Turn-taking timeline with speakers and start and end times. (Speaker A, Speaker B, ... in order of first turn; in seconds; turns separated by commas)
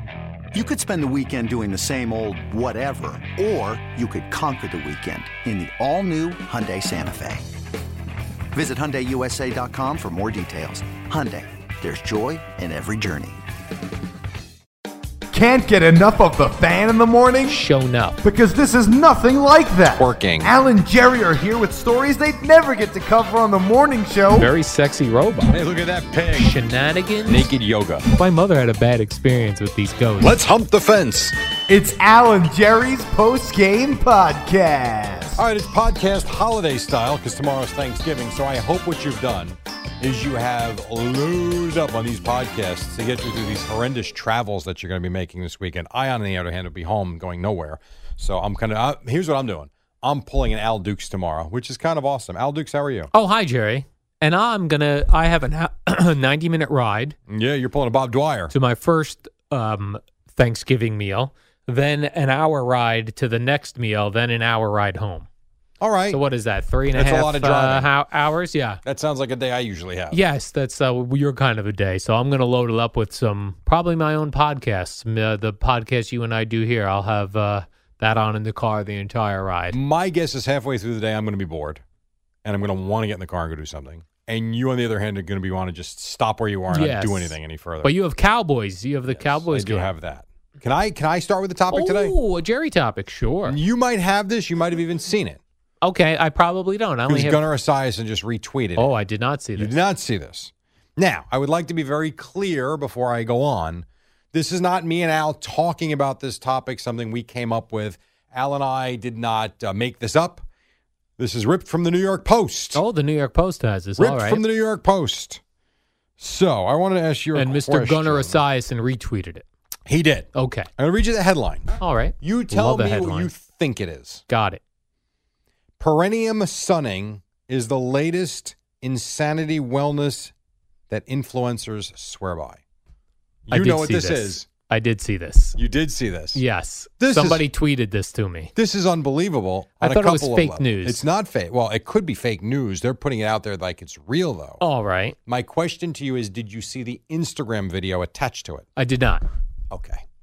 Speaker A: 0.5-7.5, Speaker A: 8.5-13.4, Speaker B: 15.3-17.6, Speaker C: 17.5-18.2, Speaker B: 18.2-24.5, Speaker D: 19.9-20.5, Speaker C: 24.3-25.6, Speaker D: 25.5-26.6, Speaker C: 26.4-27.5, Speaker D: 27.3-28.1, Speaker C: 28.1-30.4, Speaker D: 30.2-31.4, Speaker B: 31.7-35.4, Speaker D: 35.4-53.1, Speaker C: 53.1-57.2, Speaker D: 57.3-58.5, Speaker C: 58.5-65.3, Speaker D: 65.8-66.2, Speaker C: 66.1-68.8, Speaker D: 66.9-67.9, Speaker D: 68.8-70.2, Speaker C: 70.1-79.8, Speaker D: 79.7-81.8, Speaker D: 82.4-87.9, Speaker C: 86.7-89.9, Speaker D: 89.1-92.2, Speaker C: 91.7-93.6, Speaker D: 93.5-95.4, Speaker C: 95.8-97.4, Speaker D: 97.1-98.9, Speaker C: 98.8-99.8, Speaker D: 99.6-110.5, Speaker D: 111.2-112.8, Speaker C: 112.7-114.4, Speaker D: 114.0-115.4, Speaker D: 116.2-118.4, Speaker C: 117.3-119.5, Speaker D: 119.9-124.2, Speaker C: 120.3-120.7, Speaker C: 121.8-123.3, Speaker C: 124.3-124.6, Speaker D: 125.8-130.3, Speaker D: 130.9-132.6, Speaker D: 133.5-134.5, Speaker C: 133.5-135.6, Speaker D: 135.6-136.4, Speaker C: 136.3-138.5, Speaker D: 137.0-137.5, Speaker D: 138.6-144.6, Speaker C: 139.8-141.0, Speaker C: 144.6-145.2, Speaker D: 145.3-148.7, Speaker C: 148.8-149.2, Speaker D: 149.7-150.1